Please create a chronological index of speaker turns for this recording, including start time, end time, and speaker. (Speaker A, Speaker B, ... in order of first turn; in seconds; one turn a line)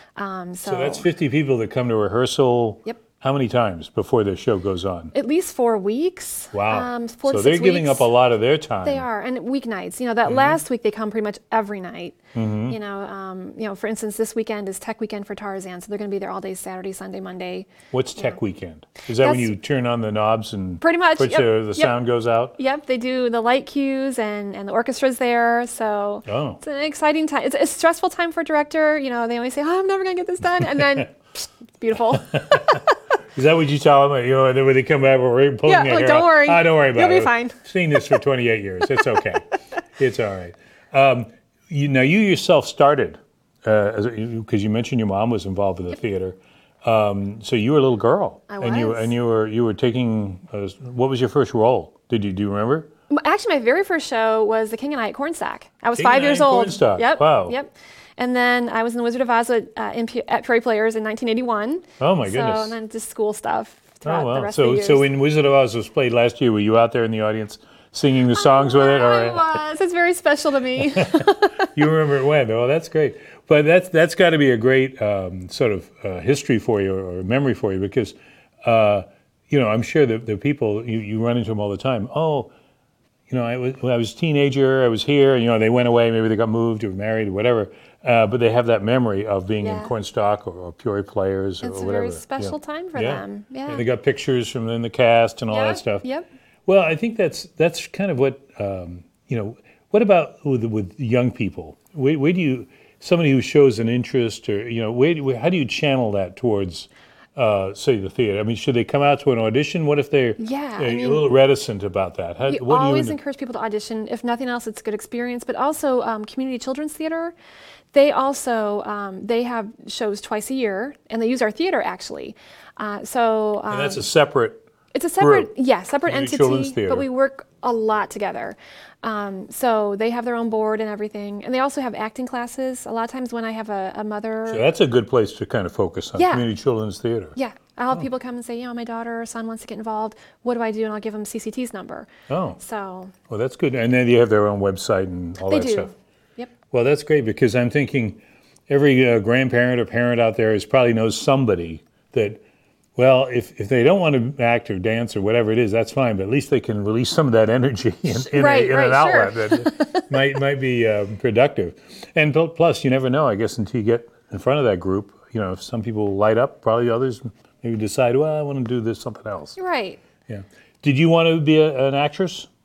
Speaker A: 0.2-1.1
Speaker B: 0.7-5.1
Speaker A: 5.1-8.1
Speaker B: 6.5-9.1
Speaker A: 8.8-17.7
Speaker B: 10.3-10.6
Speaker B: 12.3-12.8
Speaker B: 17.9-22.6
Speaker A: 19.2-19.6
Speaker A: 20.8-22.0
Speaker A: 22.6-32.8
Speaker B: 26.3-26.6
Speaker B: 32.3-32.8
Speaker B: 33.4-52.9
Speaker A: 35.7-37.6
Speaker A: 48.5-49.1
Speaker A: 53.1-65.1
Speaker B: 56.0-57.6
Speaker B: 62.0-62.8
Speaker B: 64.0-69.6
Speaker A: 68.3-71.7
Speaker B: 70.9-82.5
Speaker B: 83.3-96.0
Speaker A: 89.6-89.9
Speaker A: 91.6-93.8
Speaker A: 95.5-96.3
Speaker B: 96.7-113.2
Speaker A: 110.4-111.3
Speaker A: 112.5-117.4
Speaker A: 117.9-124.0
Speaker B: 123.7-124.7
Speaker A: 124.9-134.7
Speaker B: 125.2-125.5
Speaker B: 126.1-127.1
Speaker B: 134.5-137.4
Speaker A: 136.2-136.5
Speaker A: 137.4-143.1
Speaker B: 142.3-142.6
Speaker B: 143.3-145.9
Speaker A: 145.4-146.5
Speaker B: 146.7-152.4
Speaker B: 153.0-169.6
Speaker A: 158.3-160.2
Speaker A: 169.6-170.0
Speaker B: 170.3-172.5